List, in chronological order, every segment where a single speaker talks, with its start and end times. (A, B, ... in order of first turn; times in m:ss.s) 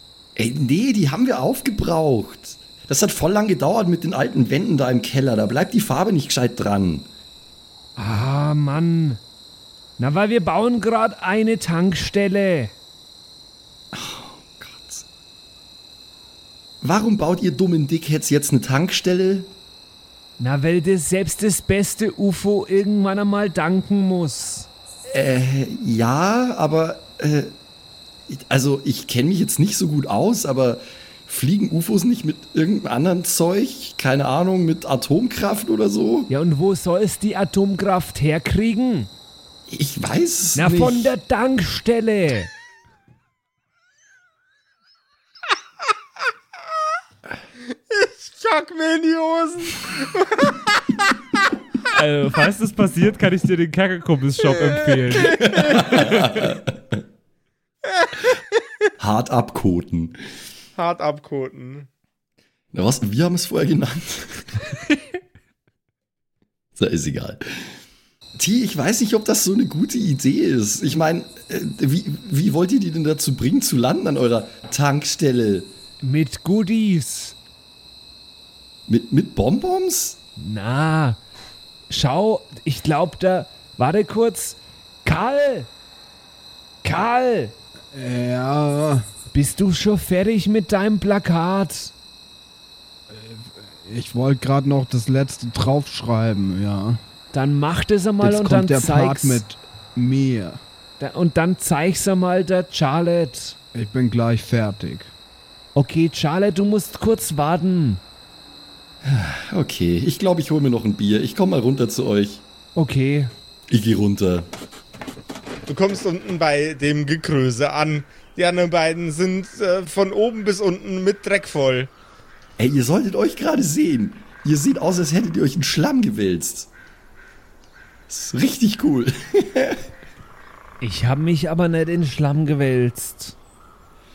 0:00.4-0:07.1 A
0:08.0-0:09.2 B
0:10.0-0:12.7 B
0:13.9-0:15.0 A
0:16.8-0:19.5 A
0:20.4-0:24.7 B
0:25.1-0:27.5 A
0:28.3-0:36.3 A
0:36.3-0:39.1 B
0:39.7-0:41.1 A
0:40.6-0:42.5 B
0:47.9-0:50.9 C
0:51.9-0:56.5 B
0:55.1-0:56.0 C
0:55.2-0:56.7 A
0:58.0-0:58.2 C
0:59.0-1:00.2 A
1:00.8-1:01.9 C
1:02.7-1:04.6 A
1:06.8-1:07.7 A
1:08.4-1:15.7 A
1:16.0-1:17.4 B
1:18.9-1:20.2 A
1:20.4-1:21.2 B
1:21.9-1:25.7 B
1:26.8-1:27.5 B
1:27.9-1:29.1 D
1:29.3-1:31.9 B
1:33.1-1:37.0 D
1:37.3-1:39.4 B
1:38.2-1:40.6 D
1:41.0-1:43.6 B
1:43.7-1:45.1 D
1:45.7-1:48.0 B
1:49.0-1:52.4 A
1:52.7-1:53.3 B
1:53.7-1:54.5 A
1:55.7-2:01.9 C
2:02.6-2:06.7 A
2:08.1-2:09.8 A
2:10.8-2:13.4 B